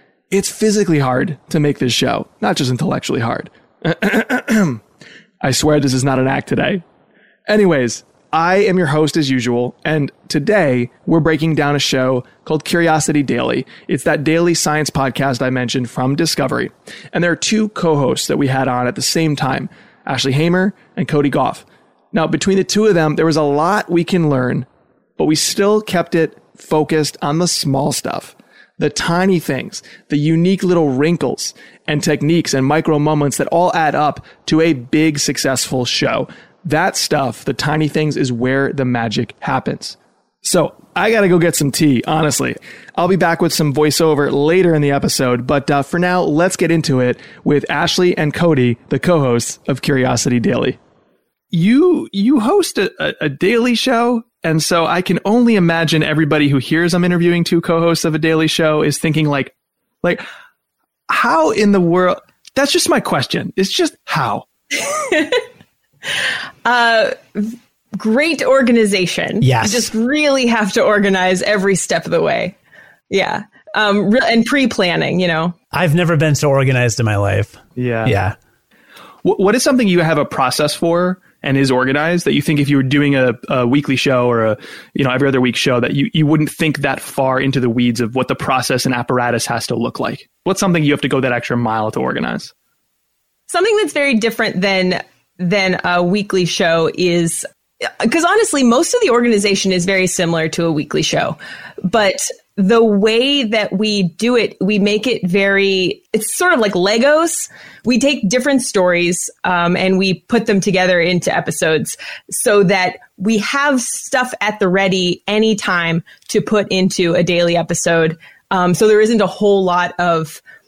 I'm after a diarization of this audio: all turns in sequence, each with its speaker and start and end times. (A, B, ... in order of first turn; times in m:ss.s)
0:00.3-0:04.8 A
0:05.4-0:06.8 A
0:07.5-0:24.7 A
0:25.2-0:50.8 A
0:51.5-1:00.2 A
1:01.1-1:04.5 A
1:04.8-1:05.4 B
1:06.6-1:12.6 B
1:09.4-1:09.9 C
1:13.1-1:15.6 B
1:15.7-1:18.4 C
1:17.8-1:18.2 A
1:19.2-1:32.5 A
1:33.5-2:00.4 B